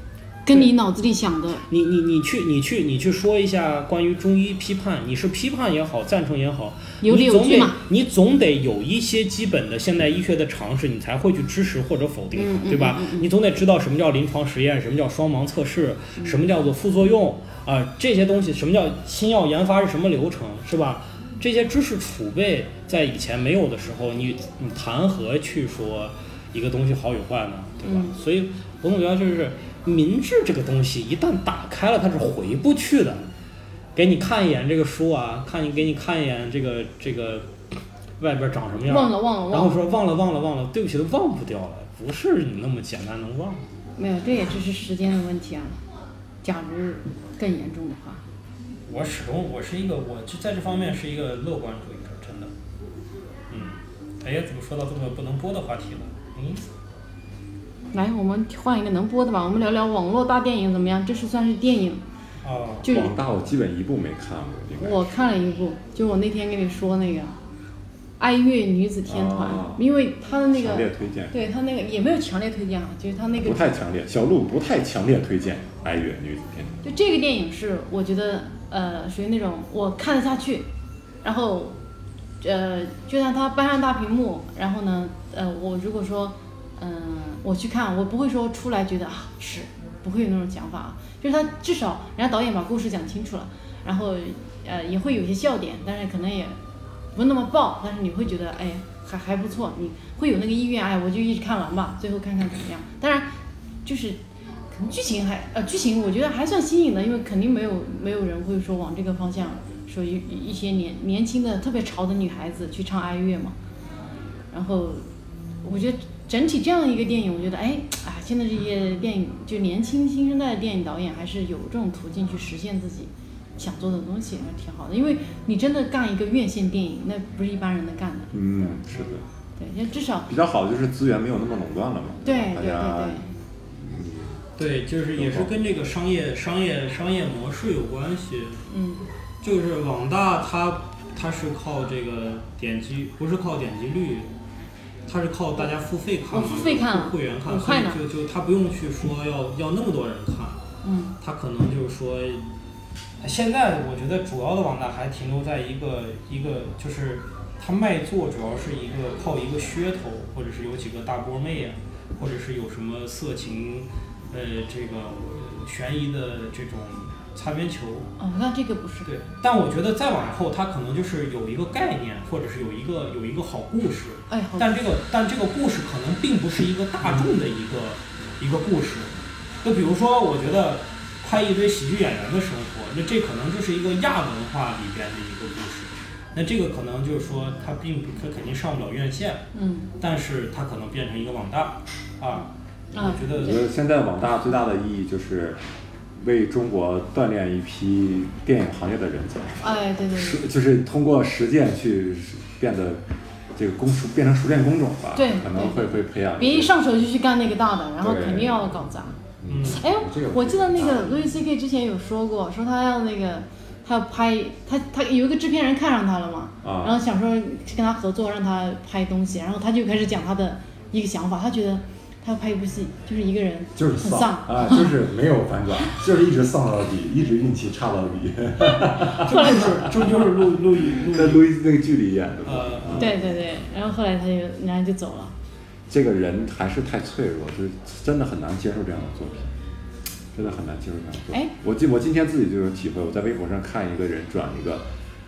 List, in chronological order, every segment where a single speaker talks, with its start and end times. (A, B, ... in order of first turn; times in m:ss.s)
0:00.4-0:01.6 A
0:01.7-0:33.2 B
0:07.0-0:07.8 A
0:12.4-0:13.3 A
0:27.8-0:28.1 A
0:34.0-0:37.5 B
0:38.2-0:43.7 B
0:38.9-0:39.8 A
0:44.0-0:45.8 A
0:46.4-0:48.2 A
0:48.9-0:52.5 B
0:53.5-0:56.6 B
0:57.9-1:02.0 A
1:02.4-1:02.9 B
1:02.8-1:03.2 A
1:02.9-1:05.3 C
1:04.8-1:07.4 A
1:08.2-1:13.6 A
1:09.0-1:09.8 C
1:10.5-1:11.4 C
1:13.4-1:16.8 C
1:16.8-1:20.7 A
1:21.2-1:21.8 A
1:22.4-1:36.6 A
1:37.1-1:43.3 A
1:43.8-1:44.2 A
1:44.7-1:53.6 A
1:54.5-1:55.0 A
1:55.6-2:08.8 A
2:08.3-2:09.2 C
2:09.6-2:10.3 A
2:10.3-2:14.4 C
2:12.2-2:13.3 A
2:14.6-2:18.6 B
2:15.2-2:15.5 C
2:18.7-2:19.0 A
2:19.4-2:24.3 B
2:25.0-2:30.6 B
2:26.3-2:28.0 A
2:30.8-2:31.1 A
2:31.2-2:32.4 B
2:33.2-2:48.1 B
2:48.2-2:49.1 A
2:49.0-3:09.4 B
2:54.3-2:54.8 A
3:09.5-3:09.9 A
3:10.0-3:13.6 B
3:13.0-3:13.4 A
3:13.4-3:15.6 C
3:16.2-3:19.6 C
3:19.6-3:20.4 A
3:20.1-3:23.0 C
3:23.6-3:26.7 C
3:25.2-3:29.1 A
3:28.0-3:31.2 C
3:29.5-3:29.8 B
3:29.7-3:44.9 A
3:36.6-3:37.0 C
3:43.8-3:53.2 C
3:48.8-3:51.5 B
3:49.0-3:50.0 A
3:52.4-3:53.2 B
3:52.9-3:55.3 A
3:55.9-3:59.6 C
4:00.3-4:04.8 C